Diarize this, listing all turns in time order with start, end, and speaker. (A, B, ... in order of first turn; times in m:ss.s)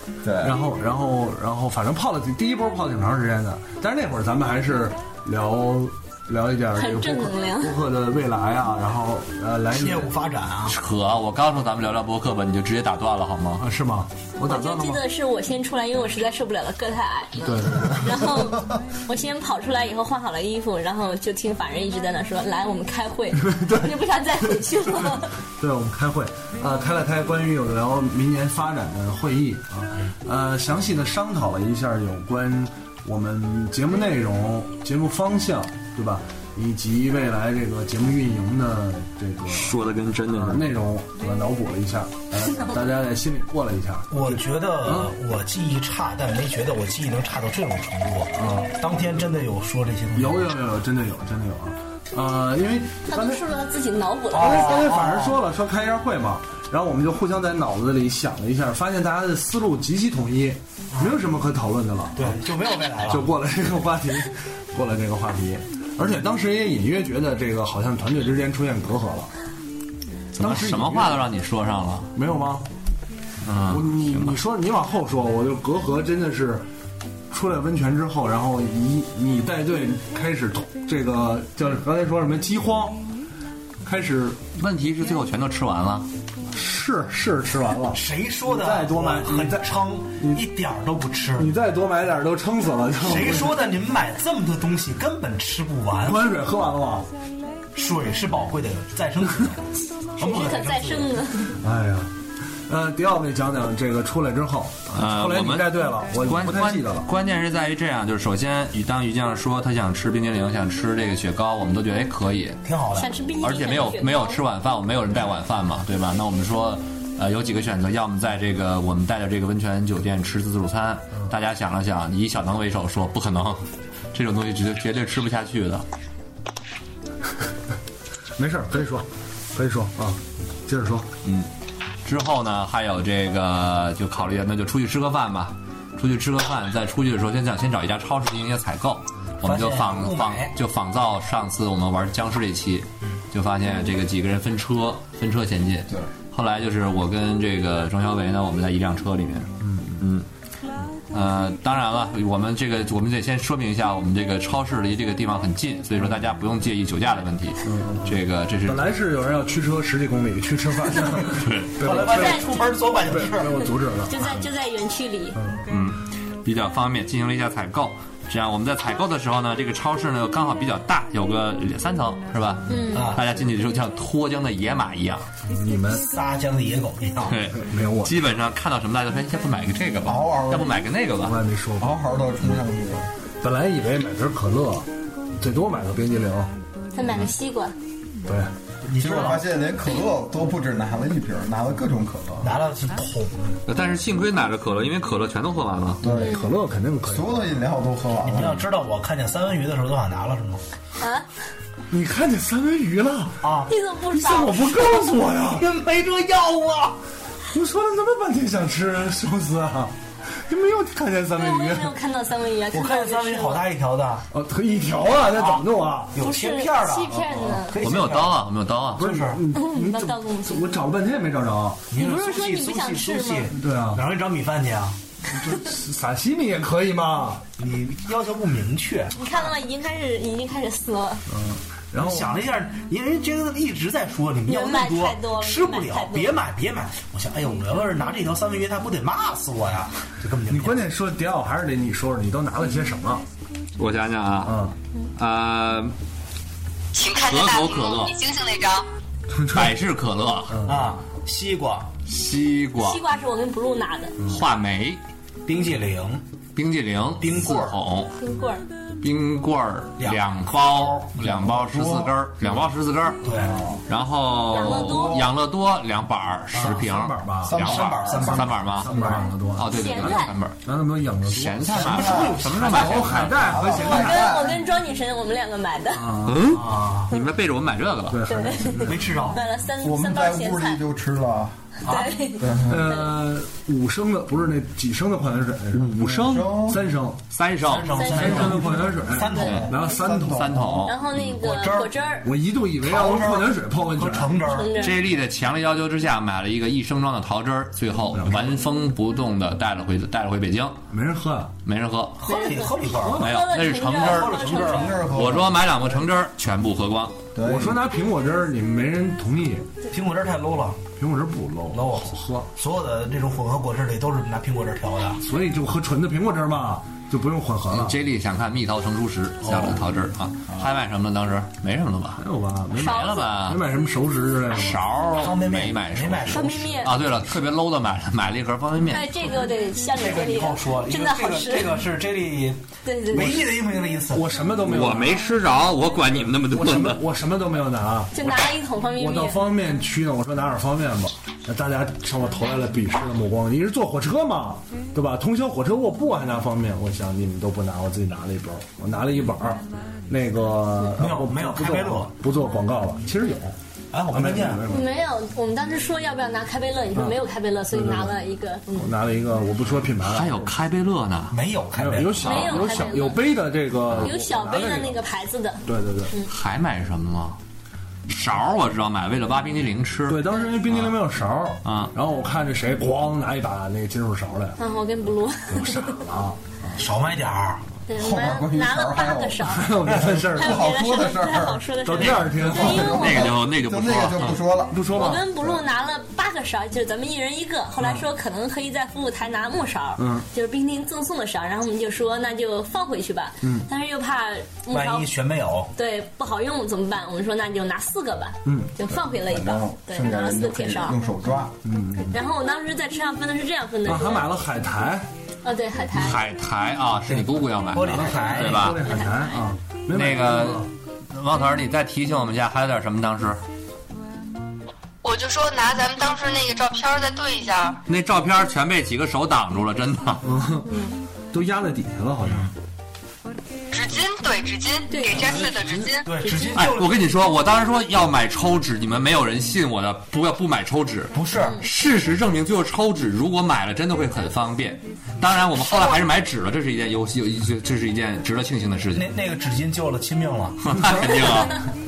0:00.2-0:00.6 A
0:00.4-0:10.1 B
0:06.8-0:07.8 C
0:09.7-0:10.8 D
0:10.7-0:13.6 E
0:13.6-0:15.0 B
0:14.4-0:25.3 C
0:17.4-0:18.5 B
0:23.4-0:23.9 B
0:25.6-0:39.8 B
0:39.5-0:40.7 E
0:40.3-0:45.1 B
0:44.1-0:50.5 D
0:48.4-0:48.8 B
0:50.2-0:53.4 B
0:53.1-0:54.8 C
0:54.3-0:55.4 D
0:54.4-1:02.4 B
1:00.9-1:01.2 D
1:02.2-1:03.3 D
1:03.0-1:09.3 B
1:10.4-1:12.1 E
1:10.4-1:11.2 B
1:12.2-1:12.7 B
1:13.4-1:14.4 E
1:13.7-1:16.7 B
1:17.3-1:23.0 B
1:23.8-1:24.4 B
1:24.6-1:26.1 E
1:26.5-1:29.6 B
1:27.9-1:31.5 D
1:30.2-1:30.4 B
1:31.4-1:33.6 B
1:33.0-1:36.3 D
1:36.0-1:37.1 B
1:37.8-1:41.2 D
1:40.2-1:41.6 C
1:41.6-1:42.1 B
1:42.7-1:47.1 B
1:44.9-1:52.6 E
1:52.6-1:53.1 D
1:53.0-1:54.4 C
1:53.4-2:05.8 E
2:08.4-2:11.1 B
2:12.0-2:30.3 E
2:19.4-2:20.5 D
2:29.6-2:30.0 B
2:31.1-2:38.9 E
2:37.6-2:44.5 B
2:41.4-2:41.7 E
2:41.8-2:43.7 D
2:42.1-2:42.7 C
2:43.6-2:45.4 C
2:45.4-2:45.7 B
2:45.7-2:55.3 E
2:52.7-2:53.1 C
2:52.9-2:53.2 D
2:55.5-2:56.1 B
2:55.9-2:57.4 D
2:57.2-3:01.4 E
2:57.5-2:58.2 B
3:00.0-3:00.8 A
3:01.2-3:02.6 B
3:01.8-3:03.1 A
3:03.4-3:06.5 B
3:06.9-3:07.7 C
3:08.3-3:08.5 B
3:08.8-3:09.5 D
3:08.9-3:12.6 A
3:12.4-3:13.6 D
3:13.7-3:16.0 E
3:16.0-3:16.4 A
3:16.0-3:17.5 B
3:17.0-3:18.6 A
3:18.2-3:20.6 D
3:21.0-3:21.3 C
3:21.9-3:23.5 B
3:23.4-3:23.7 D
3:23.7-3:25.0 C
3:24.1-3:25.7 B
3:25.4-3:27.0 D
3:27.5-3:32.0 B
3:31.4-3:33.7 C
3:32.7-3:34.3 D
3:34.3-3:36.2 B
3:35.3-3:38.4 D
3:36.2-3:37.8 C
3:37.8-3:39.0 E
3:39.0-3:41.9 B
3:39.0-3:39.4 D
3:39.5-3:40.7 C
3:41.9-3:45.0 D
3:41.9-3:43.5 C
3:43.6-3:44.0 B
3:45.3-3:47.4 B
3:47.6-3:49.5 D
3:49.2-3:51.2 C
3:51.3-3:52.4 B
3:52.0-4:00.8 D
3:54.5-3:56.4 C
4:00.5-4:03.2 B
4:03.8-4:04.6 E
4:04.4-4:04.8 B
4:05.2-4:05.9 E
4:06.9-4:08.9 F
4:07.2-4:08.2 E
4:09.3-4:09.8 B
4:09.5-4:10.6 E
4:10.5-4:10.8 B
4:10.6-4:11.9 D
4:12.1-4:13.0 E
4:12.8-4:14.2 C
4:14.3-4:15.0 E
4:15.5-4:16.2 D
4:16.6-4:18.1 E
4:17.2-4:17.8 D
4:18.2-4:18.6 C
4:19.0-4:23.2 E
4:20.0-4:21.2 D
4:21.3-4:22.1 A
4:23.2-4:23.6 D
4:23.9-4:28.9 E
4:24.5-4:25.2 C
4:24.5-4:25.3 A
4:26.5-4:26.9 D
4:26.6-4:34.3 B
4:27.5-4:28.2 A
4:27.5-4:29.2 D
4:29.6-4:30.6 E
4:29.6-4:30.3 C
4:31.3-4:33.6 E
4:31.7-4:33.1 D
4:31.8-4:32.4 A
4:33.1-4:34.6 A
4:33.7-4:36.1 C
4:35.9-4:36.7 B
4:36.2-4:38.2 E
4:36.5-4:37.1 D
4:38.1-4:39.2 B
4:38.3-4:40.8 C
4:38.8-4:39.4 D
4:39.8-4:41.8 A
4:41.8-4:42.1 D
4:41.8-4:42.6 C
4:42.4-4:42.9 A
4:42.5-4:47.2 B
4:45.9-4:46.9 A
4:47.3-4:48.1 E
4:47.6-4:49.7 D
4:47.9-4:49.6 C
4:48.1-4:50.7 B
4:49.4-4:49.7 E
4:49.7-4:50.9 A
4:50.3-4:51.2 E
4:50.9-4:52.3 C
4:51.3-4:51.9 D
4:52.2-4:54.4 B
4:52.8-4:54.8 D
4:54.5-4:55.0 C
4:54.7-5:00.8 E
4:58.2-4:58.6 B
5:00.9-5:01.5 B
5:01.6-5:02.2 E
5:02.2-5:03.3 D
5:02.2-5:05.0 C
5:02.9-5:03.3 B
5:03.2-5:04.4 E
5:04.0-5:05.0 D
5:04.7-5:05.6 A
5:05.0-5:07.2 E
5:07.4-5:07.8 A
5:07.4-5:09.7 B
5:09.9-5:10.8 D
5:11.0-5:12.5 B
5:11.7-5:15.2 D
5:15.2-5:18.0 B
5:17.7-5:22.2 E
5:19.4-5:19.8 B
5:22.2-5:24.8 B
5:22.8-5:23.3 C
5:22.8-5:23.6 E
5:24.5-5:29.2 E
5:25.1-5:26.9 D
5:26.3-5:26.9 C
5:28.9-5:31.8 C
5:29.9-5:34.4 D
5:32.8-5:33.3 C
5:33.1-5:35.3 B
5:34.6-5:37.0 E
5:36.1-5:53.6 B
5:38.1-5:39.4 C
5:51.0-5:52.1 D
5:53.9-5:54.6 D
5:54.1-5:55.0 B
5:54.7-5:58.9 C
5:57.7-5:58.2 B
5:58.7-6:00.5 B
6:00.1-6:01.4 E
6:01.3-6:02.6 D
6:01.8-6:05.0 B
6:02.2-6:02.6 E
6:02.2-6:03.2 C
6:03.9-6:04.1 E
6:04.0-6:06.3 C
6:05.6-6:06.1 B
6:06.3-6:07.4 E
6:08.1-6:11.0 E
6:10.1-6:14.6 B
6:11.6-6:11.9 E
6:14.6-6:15.9 C
6:15.5-6:16.8 B
6:16.8-6:17.6 D
6:17.9-6:19.7 C
6:18.0-6:25.6 A
6:19.5-6:20.7 B
6:20.3-6:23.3 C
6:21.8-6:23.0 B
6:22.7-6:24.4 E
6:24.7-6:25.2 B
6:24.9-6:35.1 C
6:30.0-6:30.3 B
6:33.4-6:33.7 B
6:34.7-6:35.7 D
6:35.7-6:41.0 C
6:38.4-6:38.7 B
6:39.0-6:41.6 A
6:41.6-6:42.2 B
6:42.1-6:44.3 C
6:43.8-6:45.1 B
6:45.4-6:46.2 C
6:46.0-6:48.8 E
6:47.7-6:48.7 D
6:47.8-6:50.7 B
6:48.8-6:49.4 C
6:49.9-6:53.4 E
6:55.0-6:57.8 F
6:57.9-7:00.2 E
7:00.2-7:00.7 B
7:00.7-7:01.0 C
7:01.3-7:02.5 B
7:02.3-7:02.5 D
7:03.7-7:06.1 F
7:04.9-7:05.4 C
7:05.3-7:07.0 D
7:06.2-7:06.7 C
7:06.6-7:19.1 E
7:11.1-7:11.6 D
7:15.6-7:16.0 F
7:19.0-7:20.6 D
7:20.6-7:21.6 E